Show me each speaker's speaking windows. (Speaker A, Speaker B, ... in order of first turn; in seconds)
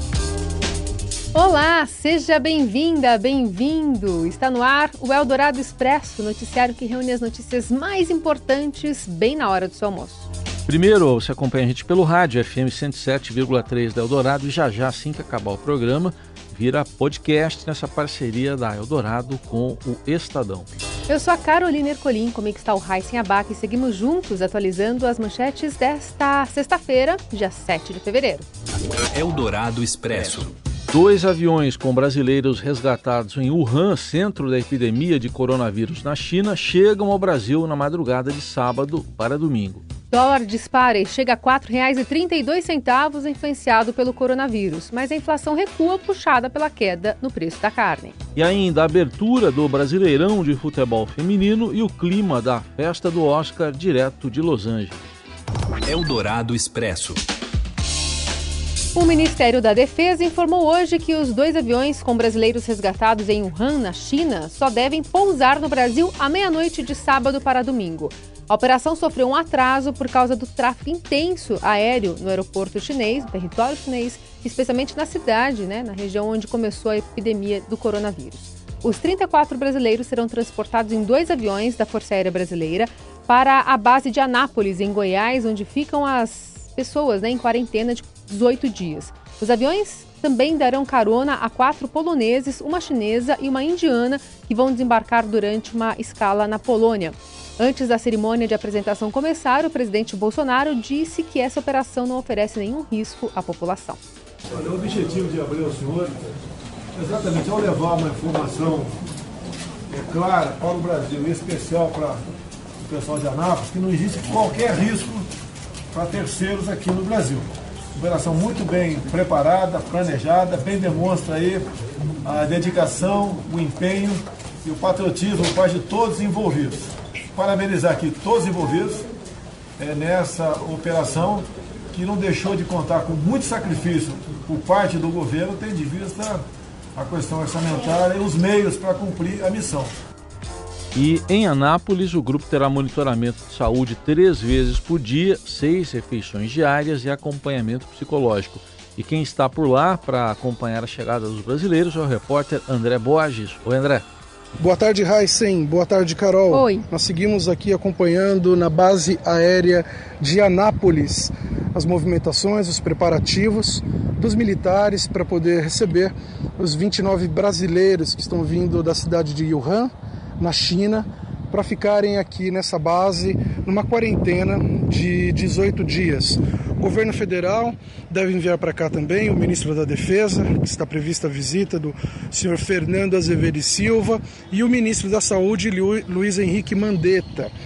Speaker A: 1.3-10.3, 21.1-28.5, 40.1-48.2, 59.0-104.0, 156.5-156.9
Speaker B: 10.7-20.7, 30.9-39.9, 48.4-55.0, 140.9-154.1
Speaker C: 29.1-30.6, 55.9-57.2
Speaker D: 104.5-106.2, 107.0-109.0, 109.9-112.2, 112.8-115.3, 115.9-121.7, 122.2-129.1, 129.8-136.4, 136.9-139.9
Speaker E: 154.6-187.5